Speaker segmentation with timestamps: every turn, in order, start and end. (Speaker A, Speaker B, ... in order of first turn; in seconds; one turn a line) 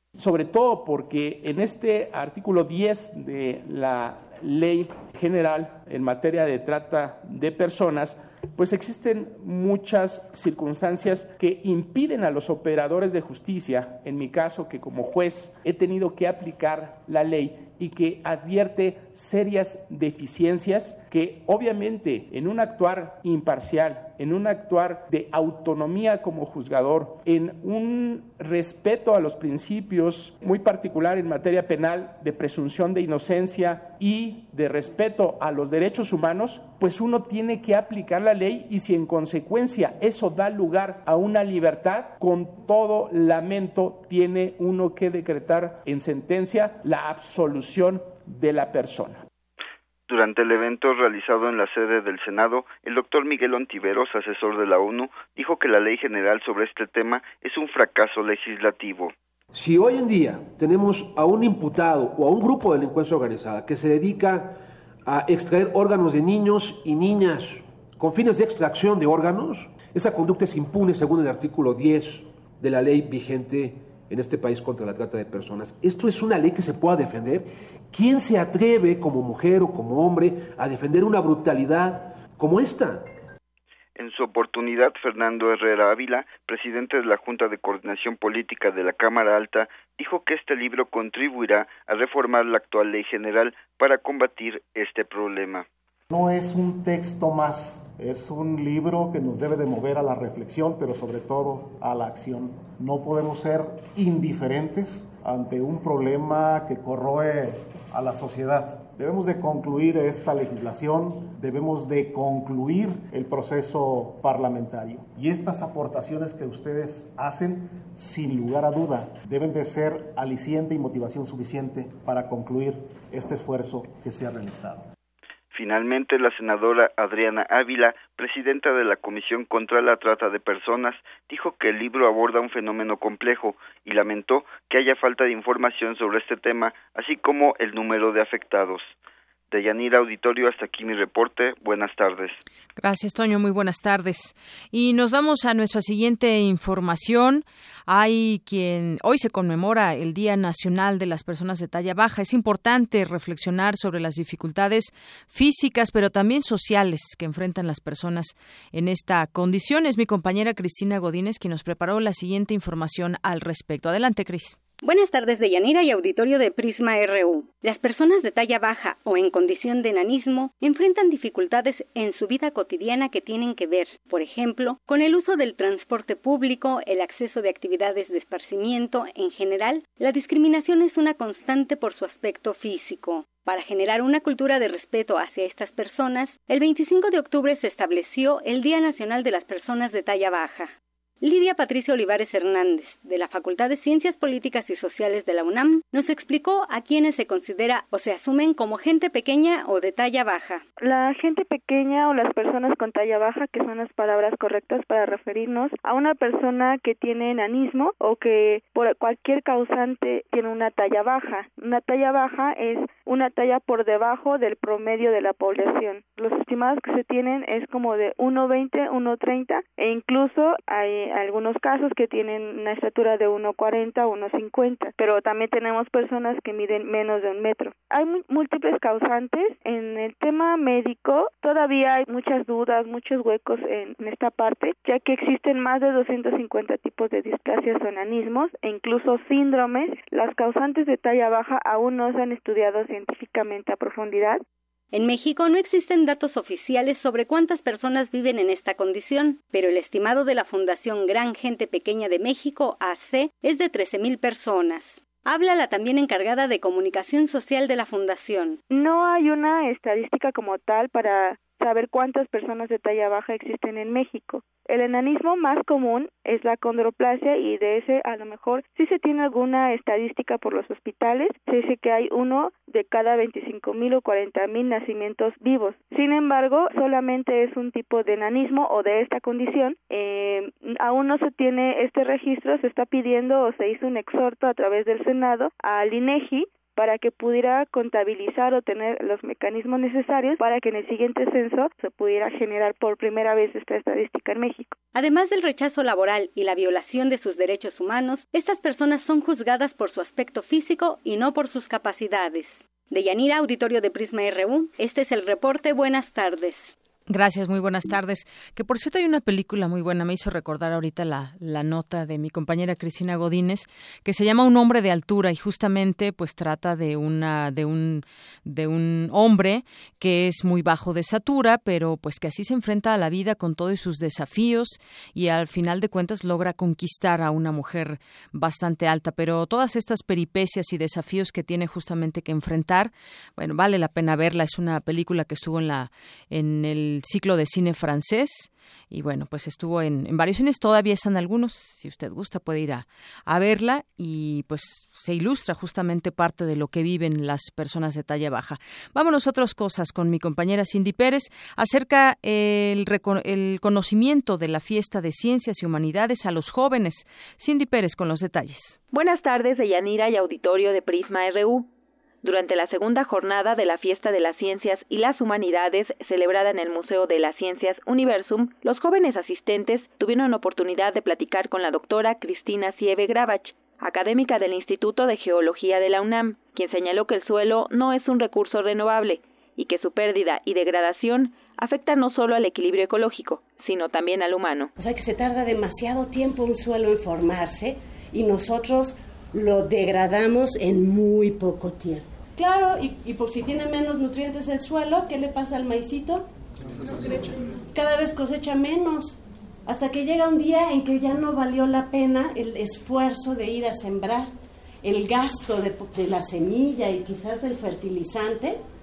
Speaker A: 0.2-49.2
Speaker B: 50.1-59.1
Speaker C: 59.5-83.0
Speaker B: 84.0-95.7
Speaker D: 96.1-124.9
Speaker B: 125.5-138.9
Speaker B: 139.5-142.4
Speaker E: 142.8-164.6
Speaker F: 164.8-200.6
Speaker G: 200.8-244.4
Speaker F: 244.9-258.6
Speaker G: 258.7-294.7
Speaker F: 294.9-306.6
Speaker E: 307.1-358.8
Speaker H: 358.9-361.7
Speaker H: 362.2-384.7
Speaker I: 384.8-396.3
Speaker I: 396.8-404.3
Speaker I: 404.8-408.6